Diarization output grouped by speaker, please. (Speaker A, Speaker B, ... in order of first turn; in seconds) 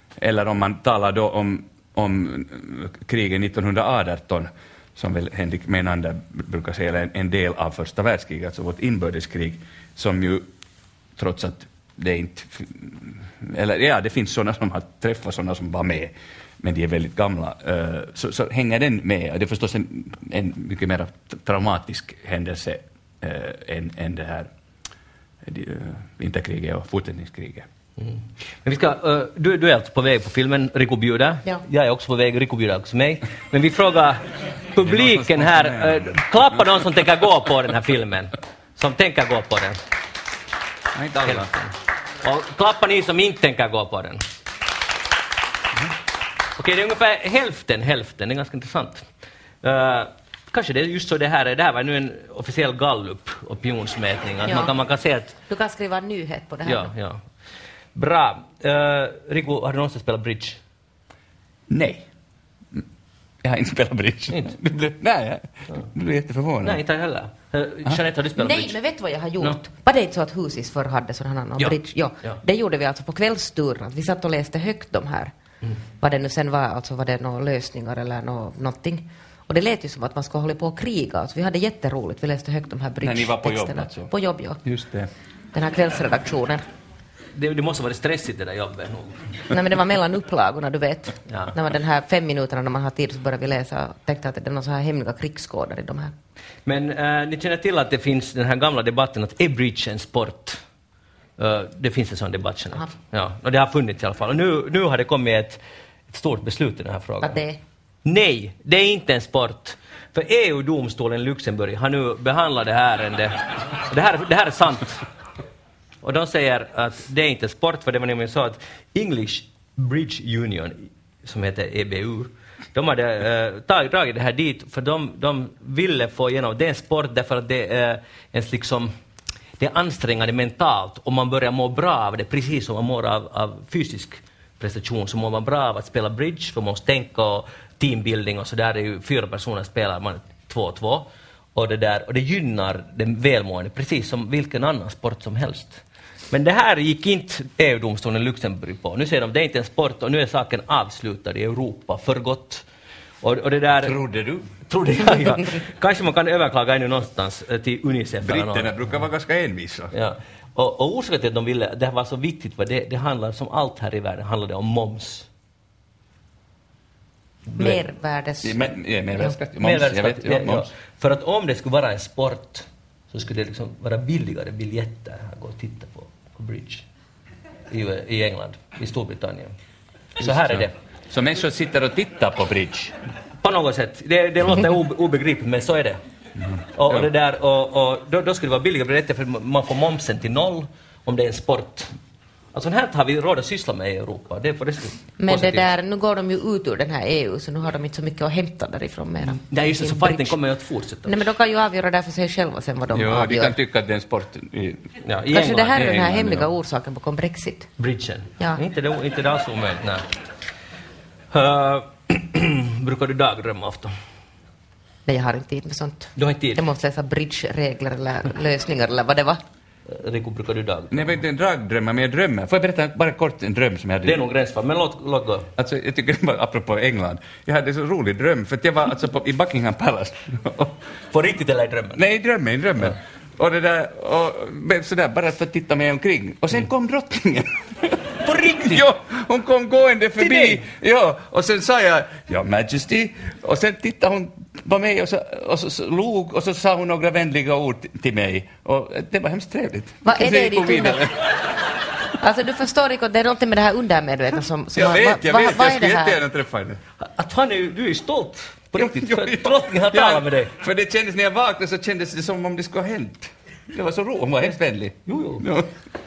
Speaker A: 0.2-10.5, 11.2-24.5, 25.4-27.7, 34.8-36.6, 40.9-41.5, 61.7-62.1, 63.4-66.8, 83.0-84.1, 84.6-85.1, 153.8-154.5, 158.2-159.9, 168.4-170.7, 180.2-182.9, 186.4-187.1, 202.9-204.9, 205.7-206.5, 220.9-224.2, 225.6-230.8, 232.0-251.5, 254.8-256.8, 258.8-265.8
Speaker B: 28.0-39.8, 41.2-44.2, 46.6-49.1, 49.6-55.4, 56.6-57.3, 58.0-60.6, 66.6-68.8, 71.6-72.4, 87.3-89.3, 91.3-91.6, 96.7-100.6, 101.4-107.4, 108.0-115.0, 116.0-128.9, 129.6-152.6, 153.2-154.0, 154.7-158.7, 159.9-165.3, 167.5-167.8, 169.6-176.9, 177.7-179.5, 180.2-180.8, 183.4-186.0, 186.7-191.9, 192.5-195.7, 199.2-201.3, 205.0-205.9, 207.8-210.1, 211.3-213.9, 216.2-216.6, 219.9-221.2, 224.0-225.5, 231.1-232.0, 238.2-238.8, 240.2-240.6, 257.0-260.5, 265.1-265.4
Speaker C: 54.4-54.7, 55.5-56.9, 68.4-75.3, 76.0-84.6, 85.5-86.6, 89.5-96.1, 107.2-107.6, 167.6-169.4, 195.2-200.4, 201.1-203.6, 205.3-207.7, 215.1-219.4, 250.0-251.0, 252.2-256.2